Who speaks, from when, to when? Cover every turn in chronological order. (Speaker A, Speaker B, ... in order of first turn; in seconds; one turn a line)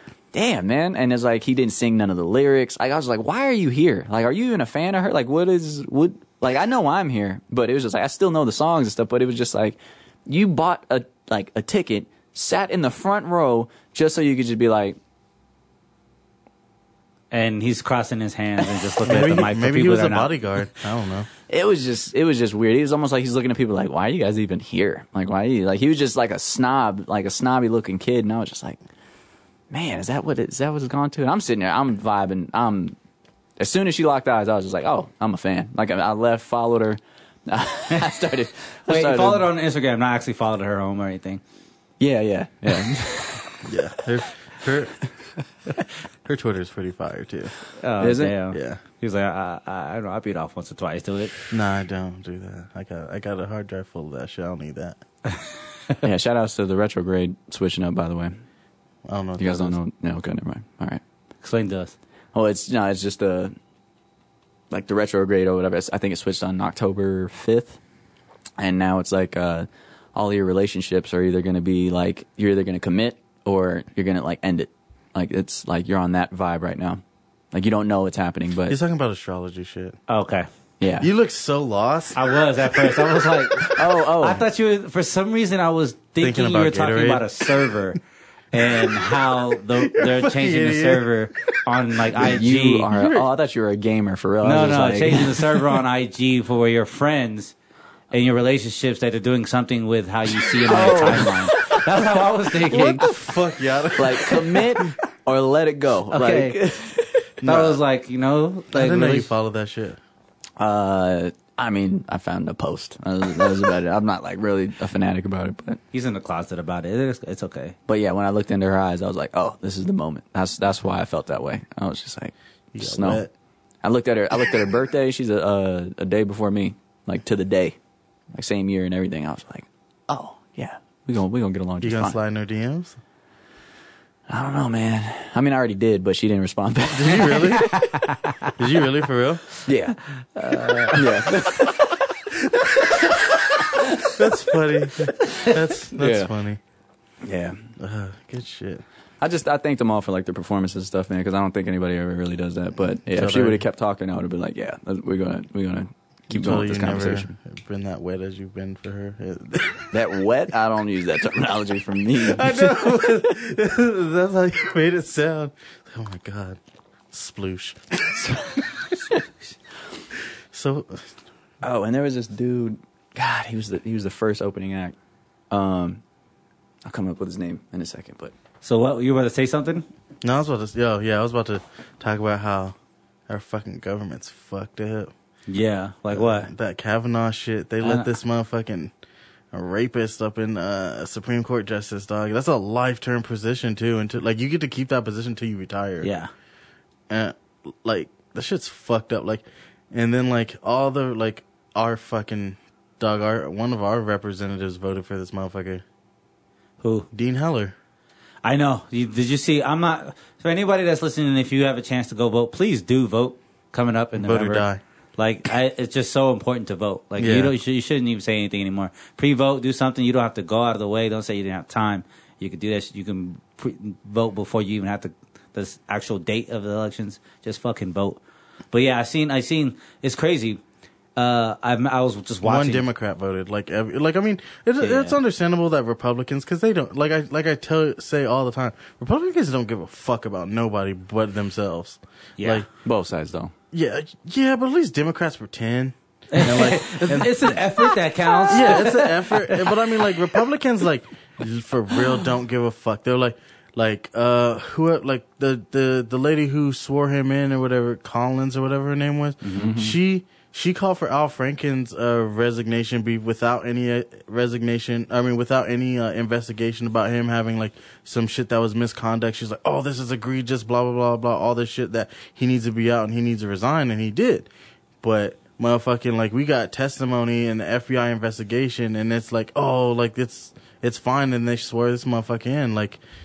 Speaker A: 0.3-15.0
Speaker B: 17.3-20.3
Speaker C: 19.1-21.3
Speaker A: 21.5-28.8
Speaker A: 29.7-33.0
Speaker A: 33.6-39.5
Speaker B: 38.9-41.4
Speaker A: 42.0-43.6
Speaker C: 43.6-45.0
Speaker C: 46.2-47.6
Speaker B: 47.8-51.4
Speaker A: 48.0-48.4
Speaker C: 48.5-48.8
Speaker C: 51.5-55.0
Speaker A: 56.0-58.4
Speaker C: 59.1-59.8
Speaker A: 59.4-61.0
Speaker B: 61.4-62.0
Speaker A: 62.3-63.5
Speaker A: 64.7-67.8
Speaker A: 68.6-78.8
Speaker C: 78.7-80.0
Speaker B: 80.1-80.5
Speaker A: 80.8-81.1
Speaker C: 81.0-83.8
Speaker B: 82.1-88.0
Speaker A: 83.8-84.5
Speaker C: 86.2-87.8
Speaker B: 88.5-92.9
Speaker C: 88.5-91.6
Speaker A: 92.2-95.5
Speaker C: 92.9-93.3
Speaker B: 94.4-97.5
Speaker B: 98.1-103.1
Speaker A: 100.7-102.0
Speaker C: 102.7-104.9
Speaker A: 104.0-107.3
Speaker B: 106.1-106.6
Speaker C: 107.4-107.8
Speaker B: 107.5-109.3
Speaker C: 108.7-110.0
Speaker A: 110.6-115.8
Speaker B: 115.9-117.8
Speaker A: 117.9-123.2
Speaker C: 122.7-123.3
Speaker A: 123.8-127.8
Speaker A: 128.3-132.2
Speaker C: 131.8-133.0
Speaker A: 134.3-137.7
Speaker C: 136.9-137.7
Speaker B: 137.6-138.5
Speaker C: 138.6-139.5
Speaker A: 139.7-140.0
Speaker B: 140.3-141.1
Speaker A: 140.9-142.1
Speaker C: 142.8-143.2
Speaker A: 142.9-144.0
Speaker C: 144.1-146.6
Speaker A: 146.0-146.3
Speaker A: 147.2-147.6
Speaker C: 147.8-148.8
Speaker A: 149.2-157.3
Speaker C: 153.1-153.6
Speaker C: 156.3-160.0
Speaker A: 159.9-162.8
Speaker C: 162.2-166.6
Speaker C: 167.1-169.2
Speaker C: 170.5-171.1
Speaker A: 171.6-174.9
Speaker A: 175.5-176.0
Speaker A: 176.8-178.3
Speaker B: 178.6-179.8
Speaker C: 180.2-182.8
Speaker C: 183.3-185.1
Speaker B: 185.5-186.5
Speaker C: 186.1-188.9
Speaker B: 187.8-188.1
Speaker C: 189.5-196.1
Speaker B: 196.0-196.3
Speaker C: 197.1-205.8
Speaker B: 206.8-207.1
Speaker C: 207.1-207.7
Speaker B: 208.4-214.7
Speaker C: 214.2-214.8
Speaker B: 215.2-228.2
Speaker C: 217.2-217.5
Speaker B: 228.7-230.6
Speaker B: 231.2-232.9
Speaker C: 232.4-242.7
Speaker B: 234.8-235.2
Speaker B: 242.4-242.6
Speaker A: 242.8-243.5
Speaker C: 243.7-247.9
Speaker B: 246.3-250.0
Speaker C: 248.5-274.5
Speaker B: 259.4-259.7
Speaker A: 259.6-260.0
Speaker C: 275.0-283.0